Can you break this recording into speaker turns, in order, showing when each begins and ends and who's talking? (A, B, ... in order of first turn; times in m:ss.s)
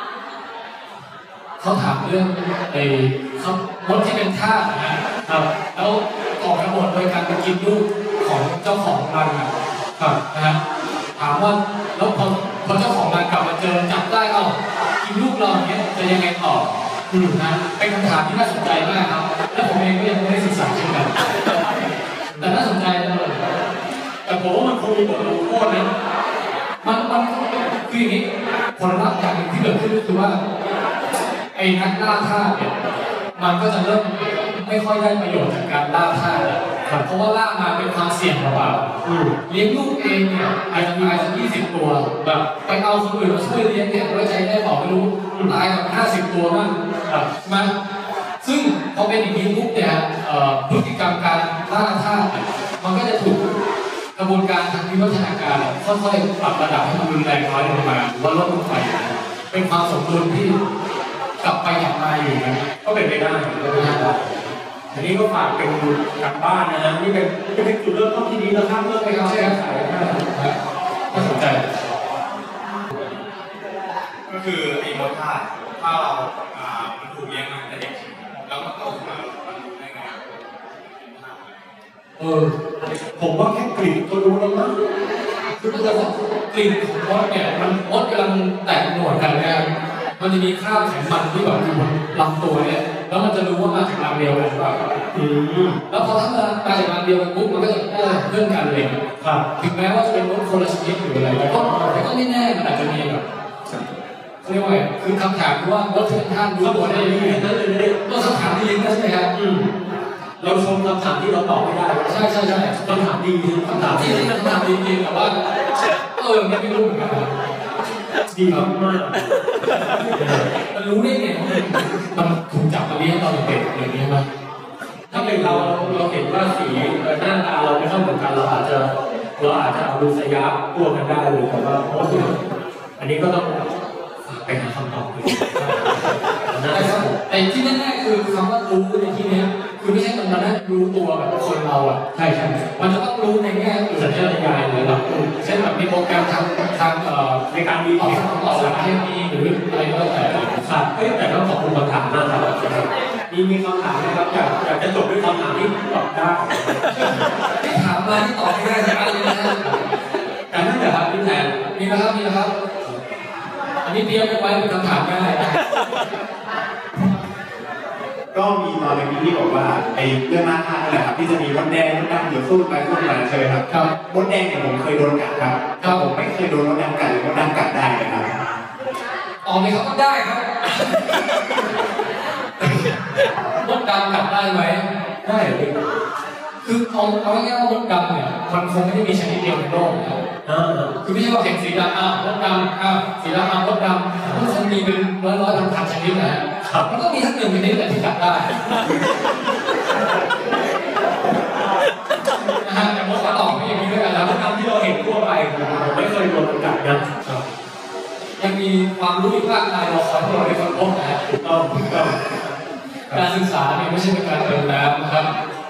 0:01.6-0:05.0 A
0:05.7-0:09.5 A
0:10.3-0:10.6 A
0:11.2-0:16.7 A
0:17.1-0:17.4 B
0:17.3-0:21.1 A
0:22.3-0:22.6 B
0:22.4-0:23.4 A
0:24.2-0:25.9 B
0:26.8-0:28.2 A
0:28.8-0:30.4 A
0:31.5-0:32.7 A
0:33.4-0:38.8 A
0:39.0-0:39.4 B
0:39.5-0:46.7 A
0:40.7-0:41.3 B
0:45.3-0:45.6 B
0:47.4-0:47.7 A
0:48.4-0:53.4 A
0:54.2-1:00.5 A
1:01.4-1:02.6 A
1:02.8-1:04.2 B
1:03.7-1:04.0 A
1:04.9-1:10.2 B
1:09.0-1:09.6 A
1:10.1-1:10.5 A
1:11.1-1:11.4 B
1:11.1-1:11.6 A
1:14.3-1:21.8 C
1:22.2-1:22.5 A
1:23.2-1:24.7 B
1:25.6-1:29.7 A
1:25.6-1:26.0 B
1:30.2-1:34.8 A
1:35.1-1:35.8 B
1:35.9-1:39.0 A
1:39.2-1:39.4 B
1:39.6-1:43.2 A
1:41.4-1:42.0 B
1:44.4-1:47.4 A
1:46.6-1:48.0 B
1:48.0-1:49.3 A
1:49.3-1:49.7 B
1:50.4-1:52.2 B
1:52.1-1:53.0 A
1:52.8-1:54.3 B
1:53.6-1:55.3 A
1:56.2-1:57.3 A
1:58.3-1:59.2 B
1:59.9-2:04.2 A
2:00.1-2:00.5 B
2:05.1-2:06.1 A
2:05.1-2:12.3 B
2:12.0-2:12.4 A
2:13.0-2:13.7 B
2:14.2-2:17.2 B
2:16.7-2:22.0 A
2:22.1-2:22.8 B
2:22.8-2:27.4 A
2:24.0-2:25.3 B
2:27.5-2:28.9 B
2:28.0-2:30.5 A
2:30.6-2:37.1 B
2:36.9-2:39.8 A
2:40.5-2:41.6 B
2:41.7-2:42.5 A
2:43.8-2:45.6 A
2:48.3-2:58.5 D
2:59.4-3:01.2 A
3:02.6-3:04.8 A
3:05.2-3:05.7 B
3:06.6-3:10.2 A
3:10.4-3:10.9 B
3:11.0-3:18.5 A
3:16.6-3:16.9 B
3:22.6-3:24.3 A
3:23.1-3:23.6 B
3:24.2-3:27.4 B
3:28.4-3:31.2 A
3:31.3-3:32.2 B
3:33.1-3:35.3 A